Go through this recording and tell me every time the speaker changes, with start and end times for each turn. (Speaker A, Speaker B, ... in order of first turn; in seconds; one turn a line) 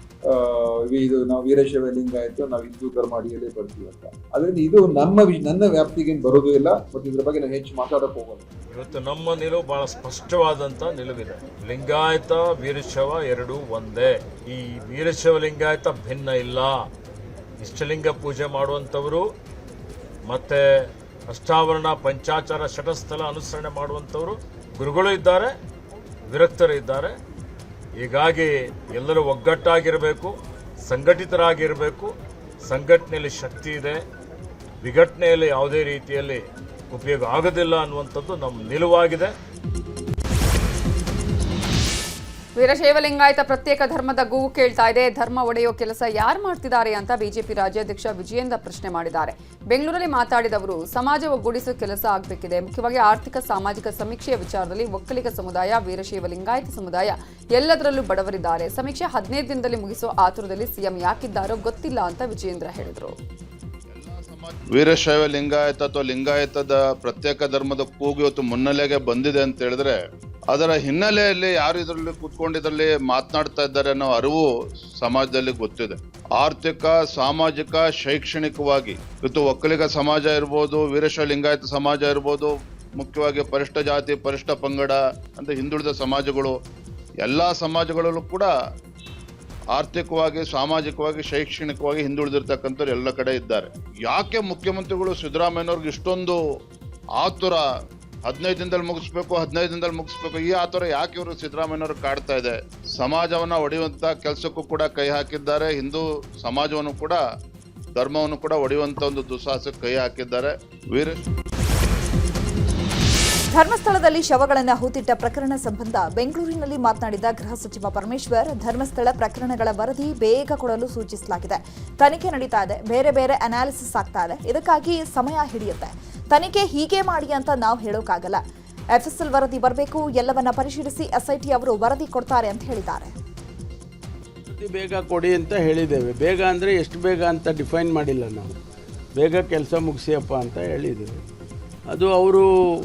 Speaker A: 0.3-8.4
Speaker B: 8.7-16.9
Speaker B: 17.6-19.3
Speaker B: 20.3-25.5
Speaker B: 26.3-27.1
Speaker B: 28.0-30.3
Speaker B: 30.9-32.1
Speaker B: 32.7-34.0
Speaker B: 34.8-39.3
Speaker C: 42.6-63.1
Speaker D: 63.9-70.0
Speaker D: 70.5-74.4
Speaker D: 75.0-86.5
Speaker D: 87.2-88.5
Speaker D: 89.7-96.4
Speaker D: 97.2-97.6
Speaker D: 98.3-107.2
Speaker D: 108.0-111.3
Speaker E: 113.5-128.4
Speaker E: 129.0-133.1
Speaker F: 134.5-138.6
Speaker F: 139.2-141.2
Speaker F: 141.9-142.5